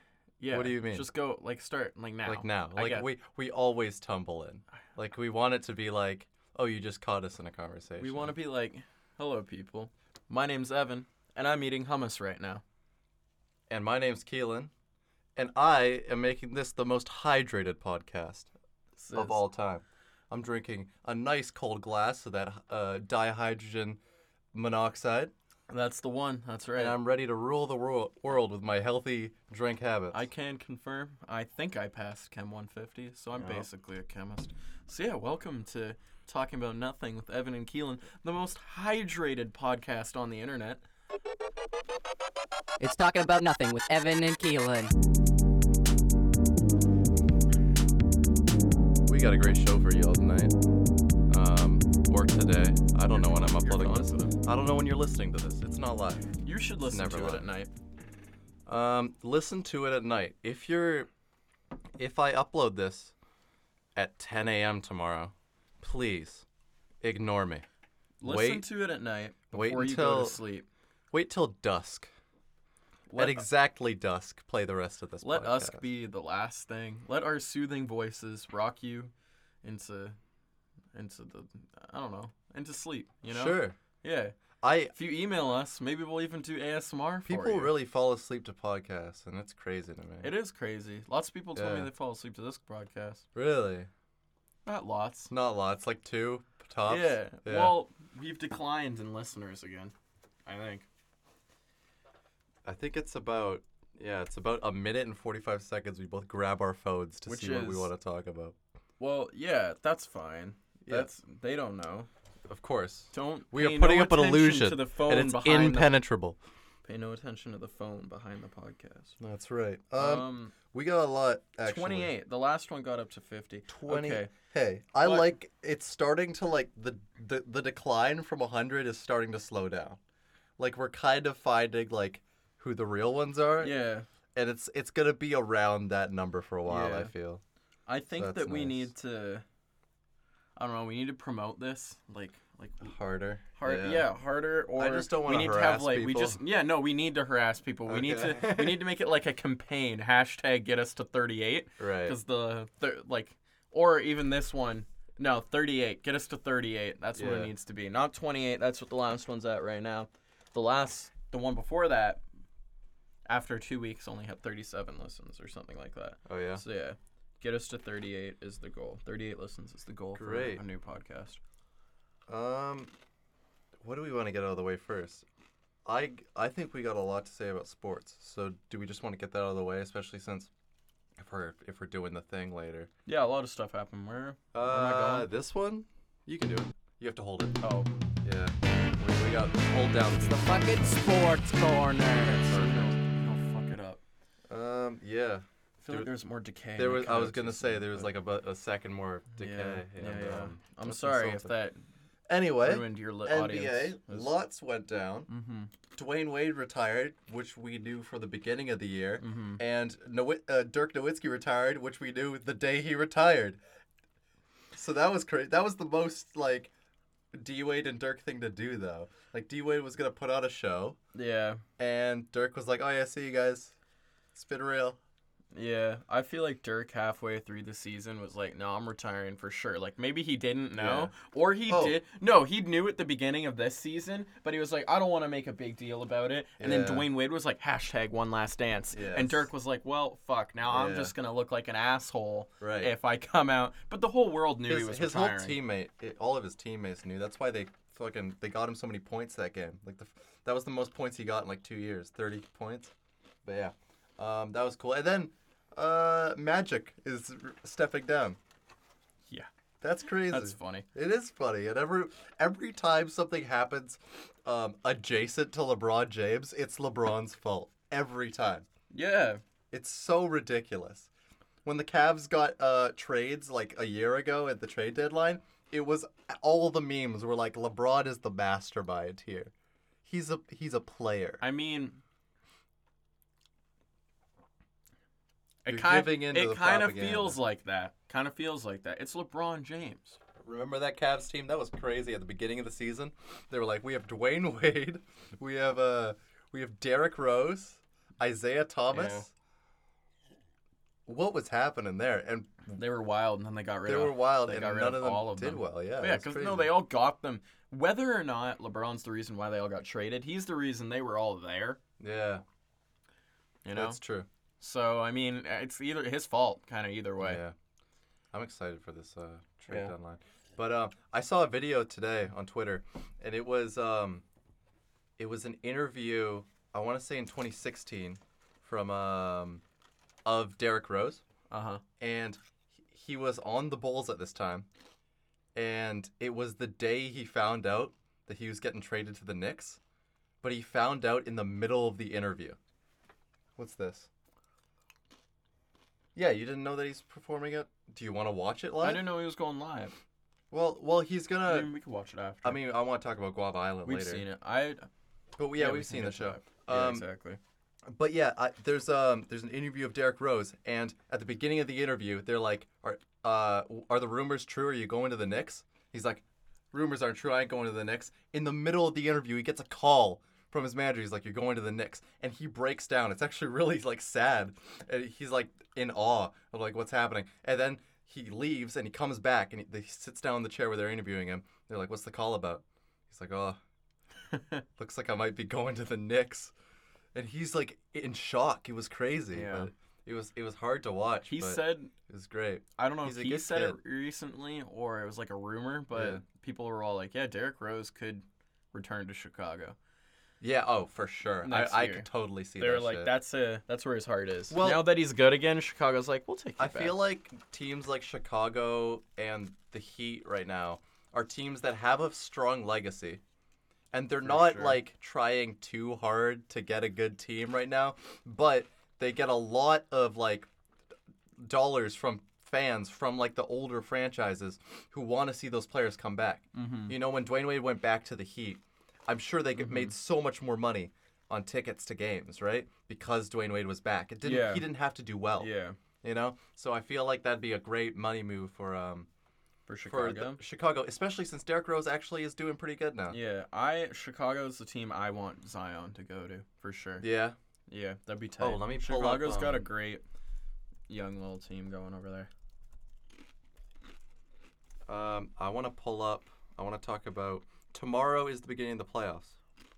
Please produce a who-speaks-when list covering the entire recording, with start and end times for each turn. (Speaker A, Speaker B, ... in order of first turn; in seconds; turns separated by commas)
Speaker A: 0.4-3.1, Speaker B: 0.5-1.1, Speaker B: 2.2-8.3, Speaker A: 8.0-12.6, Speaker B: 13.7-14.7, Speaker B: 15.4-18.5, Speaker A: 19.0-19.4, Speaker B: 19.1-24.0, Speaker B: 24.5-25.3, Speaker A: 25.7-27.0, Speaker B: 26.8-30.2, Speaker A: 30.1-40.8, Speaker B: 33.4-33.7, Speaker C: 42.8-44.9, Speaker B: 49.0-50.5, Speaker B: 51.3-57.5, Speaker A: 53.1-54.4, Speaker A: 56.4-57.7, Speaker B: 58.7-61.1, Speaker B: 62.0-63.1, Speaker B: 64.0-66.5, Speaker B: 67.0-67.7, Speaker A: 68.2-70.7, Speaker B: 68.2-68.7, Speaker B: 69.5-70.4, Speaker B: 71.1-72.1, Speaker A: 73.1-73.5, Speaker B: 73.2-75.8, Speaker A: 75.2-79.1, Speaker A: 79.6-80.2, Speaker A: 80.9-84.4, Speaker B: 83.3-83.8, Speaker B: 84.6-84.9, Speaker A: 84.9-87.8, Speaker B: 87.2-90.3, Speaker A: 90.2-93.2, Speaker B: 91.5-91.9, Speaker B: 93.3-93.9, Speaker A: 94.7-95.3, Speaker B: 95.3-97.8, Speaker A: 96.9-99.9, Speaker A: 100.5-100.9, Speaker B: 102.6-108.5, Speaker A: 107.3-107.9, Speaker A: 109.0-112.1, Speaker B: 112.5-116.4, Speaker A: 113.1-115.9, Speaker A: 116.8-119.2, Speaker B: 119.2-122.1, Speaker A: 120.0-120.5, Speaker A: 121.7-124.3, Speaker B: 123.7-130.0, Speaker A: 125.0-125.3, Speaker B: 130.6-133.8, Speaker A: 133.6-134.1, Speaker B: 134.3-137.4, Speaker A: 136.7-137.1, Speaker A: 137.9-139.4, Speaker B: 138.1-138.9, Speaker A: 140.6-143.0, Speaker B: 142.8-144.1, Speaker A: 143.5-162.2, Speaker B: 144.8-146.4, Speaker B: 147.9-148.9, Speaker B: 151.8-152.2, Speaker B: 157.2-157.5, Speaker A: 163.3-171.4, Speaker B: 166.3-166.6, Speaker B: 170.2-170.6, Speaker B: 172.3-172.9, Speaker B: 173.8-175.2, Speaker B: 175.8-180.5, Speaker B: 181.2-182.9, Speaker A: 183.1-185.3, Speaker B: 184.5-187.6, Speaker A: 187.6-187.9, Speaker B: 188.2-190.9, Speaker C: 190.2-192.7, Speaker A: 192.4-194.0, Speaker B: 192.5-192.9, Speaker B: 194.5-196.1, Speaker A: 195.8-198.1, Speaker B: 196.8-201.5, Speaker A: 199.4-201.8, Speaker B: 202.3-205.3, Speaker A: 202.6-204.3, Speaker A: 205.3-205.7, Speaker B: 205.9-213.6, Speaker A: 209.2-209.6, Speaker B: 214.7-216.7, Speaker B: 217.3-221.0, Speaker A: 221.2-221.6, Speaker B: 221.8-223.8, Speaker B: 224.3-225.0, Speaker A: 225.5-245.6, Speaker B: 230.8-231.1, Speaker B: 231.7-232.0, Speaker B: 236.6-237.1, Speaker B: 238.9-239.5, Speaker B: 240.7-241.1, Speaker B: 242.6-242.9, Speaker B: 244.7-252.9, Speaker B: 253.4-258.4, Speaker B: 259.8-268.7, Speaker A: 260.3-260.9, Speaker A: 268.9-269.4, Speaker B: 269.7-271.1, Speaker B: 271.6-279.5, Speaker B: 280.1-281.4, Speaker A: 281.4-282.0, Speaker A: 285.6-290.2, Speaker B: 285.7-287.4, Speaker B: 290.4-299.3, Speaker A: 298.9-299.2, Speaker B: 301.1-302.8, Speaker A: 302.7-311.8, Speaker B: 303.9-306.8, Speaker B: 312.0-312.4, Speaker A: 313.6-314.0, Speaker B: 313.7-314.3, Speaker A: 314.6-317.4, Speaker B: 317.2-317.6, Speaker B: 318.3-324.2, Speaker A: 319.7-319.9, Speaker B: 325.2-329.6, Speaker B: 330.2-331.2, Speaker A: 331.5-331.8, Speaker B: 332.0-334.7, Speaker B: 335.6-339.8, Speaker B: 340.4-342.6, Speaker B: 343.6-344.1, Speaker B: 346.1-349.1, Speaker A: 348.8-349.9, Speaker B: 350.5-351.7, Speaker A: 351.4-352.6, Speaker B: 352.4-354.3, Speaker A: 353.8-354.9, Speaker B: 355.4-357.1, Speaker A: 355.6-357.4, Speaker B: 357.9-383.6, Speaker A: 384.3-384.6, Speaker B: 384.8-386.5, Speaker B: 387.1-393.8, Speaker A: 389.3-389.7, Speaker A: 391.3-391.9, Speaker A: 392.8-399.8, Speaker B: 395.9-396.2, Speaker B: 400.4-403.1, Speaker A: 401.4-407.0, Speaker B: 404.5-404.9, Speaker B: 406.6-413.2, Speaker B: 413.9-420.5, Speaker A: 414.2-414.8, Speaker B: 421.4-435.5, Speaker A: 426.5-427.0, Speaker A: 429.6-429.9, Speaker A: 434.2-434.7, Speaker A: 435.4-435.8, Speaker B: 436.0-439.1, Speaker A: 439.7-440.4, Speaker B: 439.9-443.2, Speaker A: 443.1-447.1, Speaker B: 447.0-447.4, Speaker A: 447.7-450.0, Speaker B: 448.4-449.7, Speaker A: 450.9-452.3, Speaker B: 454.9-459.4